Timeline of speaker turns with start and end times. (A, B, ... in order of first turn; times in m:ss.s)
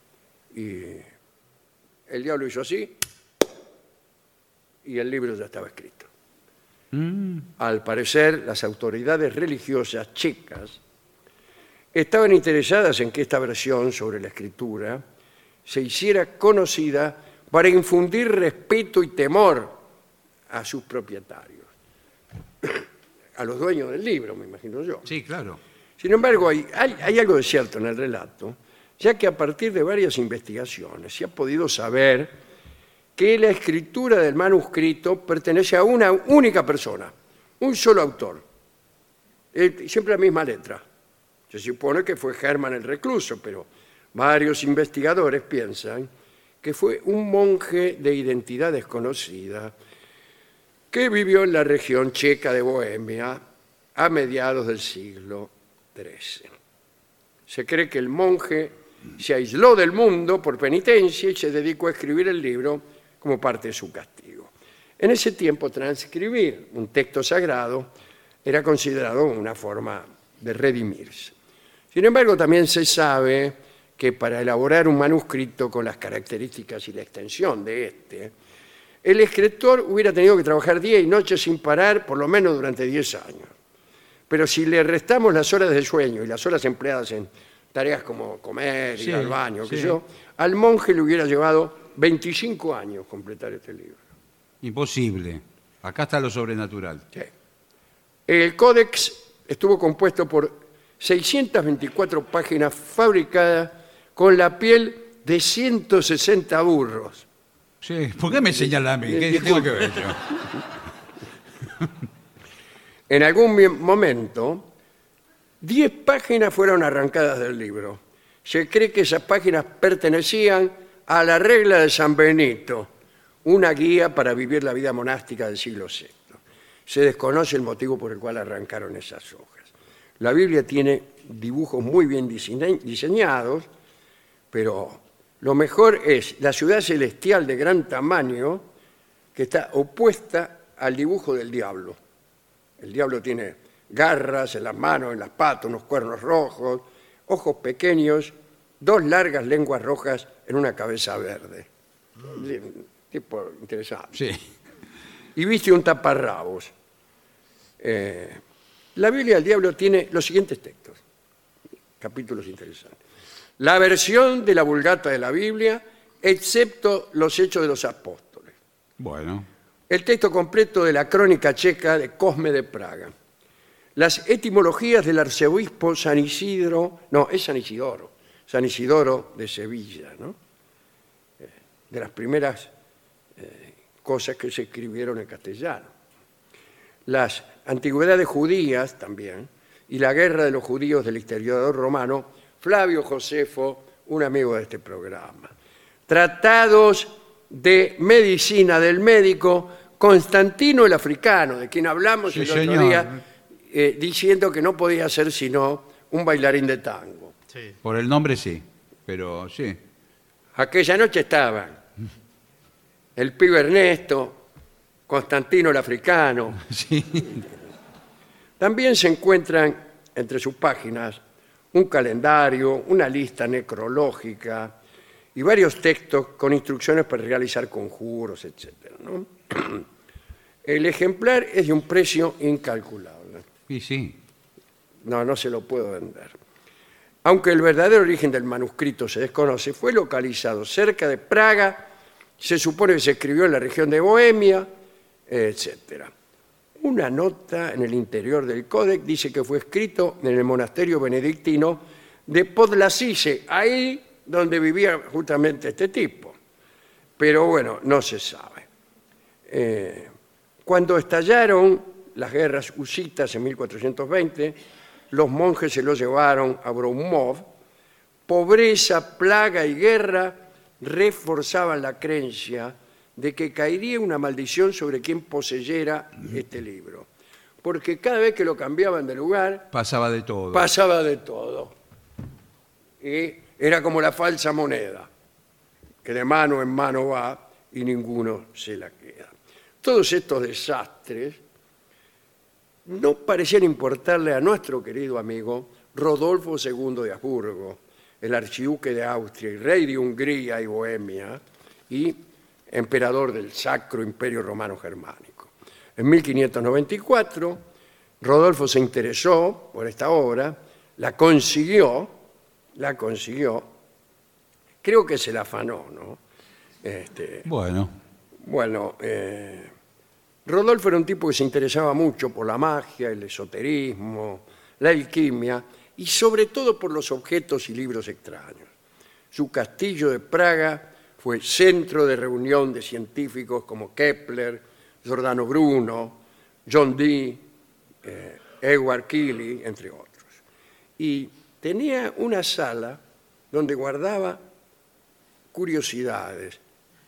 0:00.5-0:01.1 A
0:02.1-0:03.0 A
0:04.8-0:06.1 A
0:06.9-0:07.5 B
0:07.6-0:10.8 A
0:11.9-0:15.0 A
0:15.7-0:19.8 A
0:20.5-0:21.7 A
0:22.6-0:25.1 A
0:25.1-0:25.6 B
0:26.0-0:32.4 A
0:33.2-0:38.4 A
0:39.5-0:40.8 A
0:41.5-0:46.1 A
0:46.6-0:49.8 A
0:50.9-0:53.4 A
0:54.0-0:56.5 A
0:57.5-1:07.9 A
1:08.4-1:11.3 A
1:11.9-1:18.3 A
1:19.0-1:23.5 A
1:24.3-1:34.0 A
1:29.0-1:30.0 B
1:34.6-1:37.0 B
1:38.3-1:47.3 A
1:47.8-1:50.4 B
1:49.0-1:50.0 A
1:53.1-1:54.7 A
1:55.6-2:02.9 A
2:03.4-2:13.7 A
2:14.5-2:18.6 A
2:19.4-2:22.0 A
2:22.8-2:31.7 A
2:32.3-2:34.2 A
2:34.2-2:34.4 B
2:35.4-2:36.7 A
2:37.8-2:38.4 A
2:39.0-2:41.0 A
2:42.0-2:43.0 A
2:43.6-2:48.5 A
2:49.0-2:49.5 B
2:49.9-2:53.1 A
2:54.0-3:00.4 A
3:01.4-3:02.7 A
3:03.4-3:05.9 A
3:07.1-3:15.5 A
3:16.1-3:23.2 A
3:22.3-3:23.2 B
3:23.7-3:27.4 A
3:27.8-3:29.8 B
3:30.6-3:31.8 A
3:33.2-3:34.4 A
3:35.1-3:36.6 A
3:36.6-3:37.4 B
3:38.6-3:41.2 A
3:41.7-3:44.8 A
3:45.4-3:49.8 A
3:50.6-3:53.4 A
3:53.7-3:54.2 B
3:55.0-3:56.4 A
3:57.2-4:04.7 A
4:05.3-4:06.1 A
4:06.8-4:16.4 A
4:17.2-4:18.7 A
4:19.5-4:20.1 A
4:20.7-4:24.6 A
4:25.1-4:27.5 A
4:28.3-4:37.1 A
4:37.6-4:39.7 A
4:39.7-4:40.7 B
4:40.5-4:41.7 A
4:43.0-4:45.1 A
4:46.0-4:51.4 A
4:52.9-5:07.6 A
5:08.2-5:12.1 A
5:12.8-5:13.7 A
5:14.8-5:16.2 A
5:16.8-5:17.5 A
5:17.5-5:17.9 B
5:18.4-5:19.7 A
5:20.5-5:28.7 A
5:29.3-5:37.4 A
5:38.0-5:40.4 A
5:41.0-5:43.0 A
5:43.5-5:44.4 A
5:45.5-5:46.6 A